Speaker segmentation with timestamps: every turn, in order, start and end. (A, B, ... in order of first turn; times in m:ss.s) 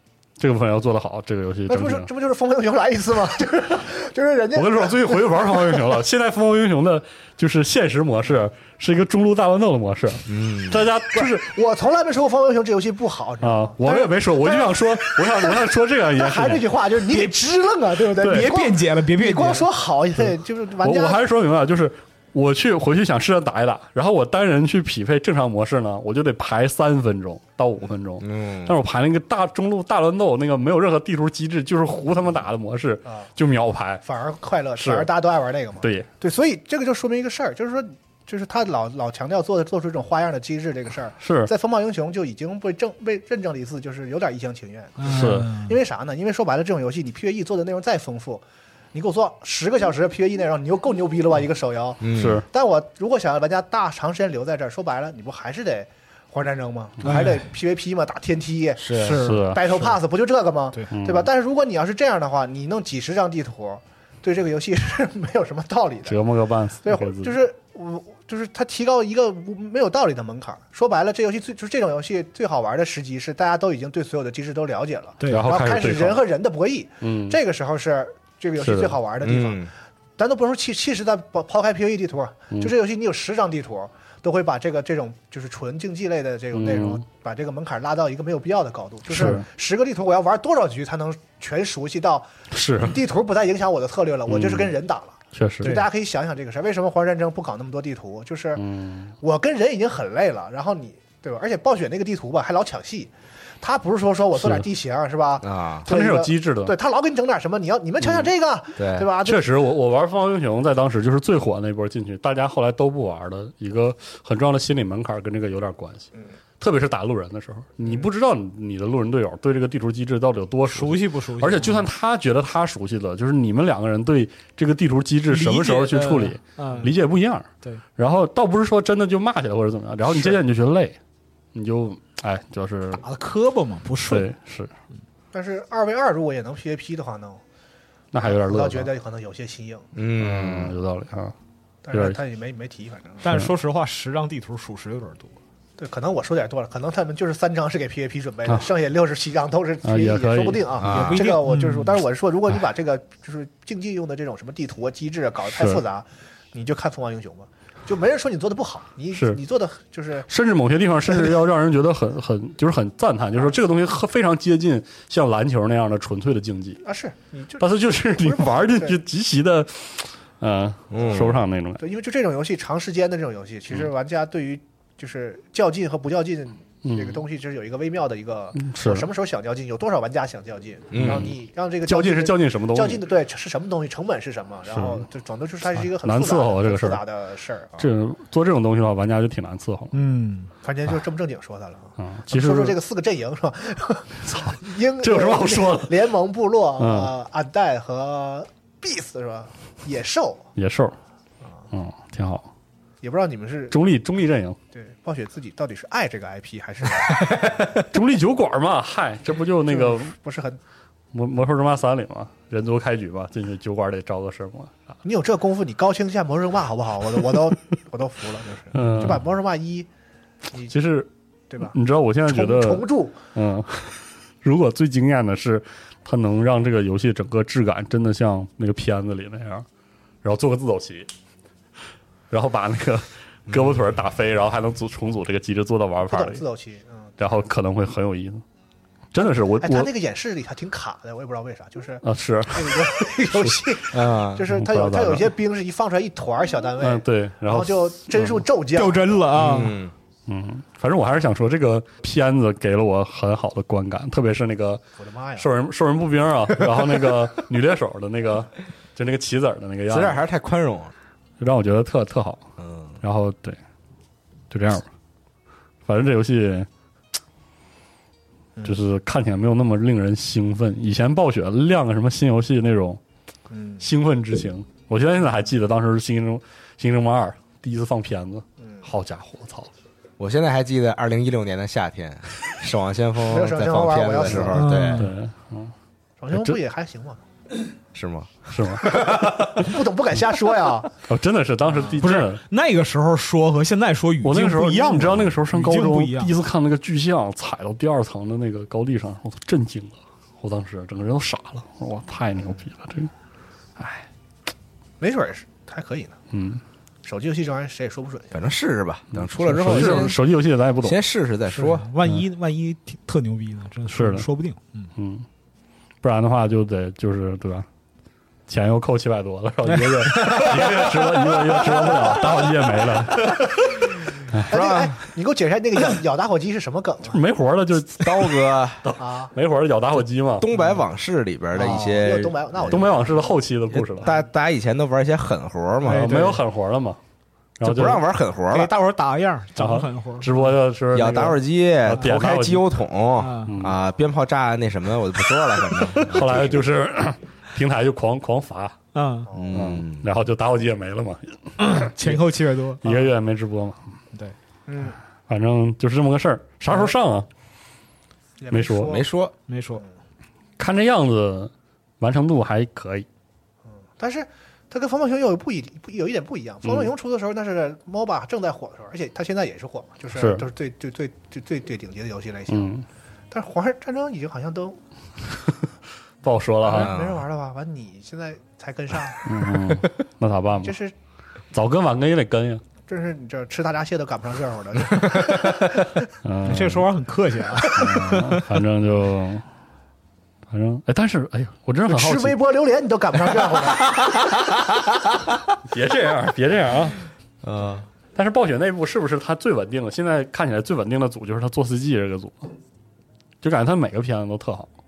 0:00.4-0:02.1 A
0:01.7-0:06.0 B
0:04.6-0:11.5 A
0:10.3-0:10.8 C
0:11.1-0:15.6 B
0:13.4-0:16.6 A
0:16.2-0:21.2 B
0:18.2-0:19.7 D
0:18.2-0:18.5 A
0:20.2-0:34.0 A
0:28.2-0:28.8 C
0:34.0-1:06.2 B
0:34.8-0:35.1 A
0:41.2-0:41.5 A
0:45.0-0:45.8 D
0:45.1-0:45.5 A
0:52.0-0:52.4 C
0:52.1-0:52.5 A
0:57.0-0:57.4 D
0:58.8-0:59.2 C
0:58.9-0:59.8 D
0:59.2-0:59.6 A
1:00.9-1:01.3 A
1:06.1-1:07.4 A
1:06.8-1:38.6 B
1:15.2-1:15.5 D
1:15.3-1:16.2 A
1:17.0-1:17.4 A
1:18.6-1:19.0 A
1:19.2-1:19.7 C
1:26.5-1:27.0 A
1:29.1-1:29.5 A
1:32.5-1:33.0 A
1:34.3-1:34.7 A
1:35.3-1:35.8 A
1:38.6-1:39.1 A
1:39.2-1:49.5 B
1:44.4-1:44.7 A
1:45.4-1:45.9 C
1:45.9-1:46.7 A
1:48.8-1:49.1 C
1:49.2-1:56.1 A
1:56.6-2:11.0 A
2:00.7-2:01.9 D
2:05.3-2:07.0 D
2:11.5-2:13.0 A
2:13.0-2:14.3 D
2:14.1-2:14.7 A
2:15.3-2:17.4 B
2:18.1-2:18.9 A
2:18.2-2:19.9 B
2:20.0-2:20.8 C
2:20.2-2:21.3 A
2:21.8-2:23.2 B
2:21.9-2:22.2 A
2:23.2-2:25.3 D
2:25.8-2:40.3 B
2:29.8-2:30.8 A
2:30.8-2:31.3 C
2:30.9-2:31.9 D
2:35.5-2:35.8 A
2:39.1-2:39.4 A
2:40.3-2:46.8 A
2:46.8-2:49.0 B
2:47.6-2:51.8 A
2:50.9-2:51.4 C
2:51.8-3:07.9 B
2:56.8-2:57.2 A
2:58.6-2:59.0 A
3:00.9-3:01.3 C
3:01.0-3:01.3 A
3:01.8-3:03.0 A
3:04.7-3:05.0 A
3:06.0-3:07.0 A
3:07.8-3:09.9 A
3:09.9-3:10.5 D
3:10.6-3:20.5 B
3:12.0-3:12.8 A
3:14.3-3:15.9 A
3:16.8-3:17.1 A
3:20.6-3:21.0 A
3:21.7-3:22.5 A
3:23.0-3:23.8 B
3:23.7-3:24.6 A
3:24.7-3:27.7 B
3:27.8-3:30.1 A
3:29.7-3:30.6 B
3:31.1-3:34.8 A
3:35.0-3:39.9 B
3:38.7-3:39.2 A
3:40.7-3:41.1 A
3:41.5-3:41.8 B
3:41.6-3:49.7 A
3:42.3-3:43.2 B
3:50.2-3:51.1 A
3:52.3-3:56.4 A
3:53.5-3:53.7 C
3:56.1-3:57.2 B
3:57.2-3:58.4 A
3:59.1-3:59.9 A
3:59.6-4:09.1 B
4:02.0-4:03.6 A
4:03.9-4:04.4 C
4:04.5-4:05.3 A
4:06.8-4:08.4 A
4:08.8-4:09.8 D
4:09.3-4:09.9 C
4:10.3-4:14.8 A
4:15.0-4:15.5 B
4:15.4-4:20.2 A
4:19.9-4:20.9 C
4:21.4-4:22.4 A
4:22.6-4:23.0 C
4:23.0-4:23.6 A
4:24.5-4:24.9 A
4:25.9-4:26.7 A
4:28.6-4:33.0 A
4:33.5-4:33.8 B
4:33.8-4:39.7 A
4:38.6-4:38.9 B
4:40.2-4:45.1 C
4:43.3-4:44.7 B
4:44.3-4:45.7 A
4:44.5-4:45.1 D
4:46.2-4:47.2 B
4:46.3-4:46.6 A
4:47.9-4:49.4 C
4:48.5-4:49.7 A
4:48.9-4:50.9 B
4:51.1-4:52.4 A
4:52.0-4:56.3 D
4:54.2-5:03.1 A
5:03.8-5:04.1 A
5:05.0-5:06.2 B
5:06.3-5:06.6 A
5:07.0-5:08.4 B
5:08.3-5:11.9 C
5:09.1-5:11.0 A
5:11.5-5:14.9 D
5:13.9-5:14.3 A
5:15.0-5:15.3 A
5:16.0-5:17.7 A
5:18.5-5:23.5 A
5:19.7-5:20.8 D
5:24.3-5:24.5 A
5:24.5-5:27.2 B
5:27.1-5:30.5 A
5:28.0-5:28.8 C
5:29.0-5:29.3 B
5:30.4-5:32.9 C
5:30.5-5:30.8 D
5:31.6-5:33.2 B
5:32.7-5:34.1 A
5:33.7-5:36.4 C
5:35.8-5:36.4 D
5:35.8-5:37.0 A
5:37.6-5:38.0 A
5:37.6-5:38.7 C
5:38.5-5:40.6 D
5:39.6-5:42.7 A
5:40.9-5:46.6 C
5:43.2-5:43.5 D
5:43.5-5:43.8 A
5:46.1-5:48.8 A
5:48.9-5:49.3 D
5:49.3-5:49.5 B
5:49.3-5:50.1 C
5:49.5-5:52.2 A
5:51.6-5:53.1 D
5:52.8-5:53.8 A
5:54.7-5:55.0 B
5:55.3-5:57.3 A
5:58.4-5:59.1 B
5:58.5-5:59.0 A
5:58.8-5:59.3 C
5:59.5-5:59.8 D
6:00.6-6:03.1 A
6:04.0-6:12.7 B
6:10.1-6:10.5 A
6:12.5-6:12.8 A
6:13.3-6:14.8 B
6:16.2-6:16.9 A
6:16.6-6:19.3 B
6:16.7-6:17.2 C
6:19.2-6:20.8 A
6:20.6-6:20.9 B
6:21.5-6:22.6 A
6:22.9-6:26.0 B
6:26.2-6:26.9 A
6:26.5-6:28.4 D
6:27.7-6:29.4 A
6:30.5-6:32.4 A
6:31.9-6:34.1 B
6:35.7-6:37.0 A
6:37.4-6:37.9 C
6:38.2-6:42.5 A
6:43.4-6:44.7 A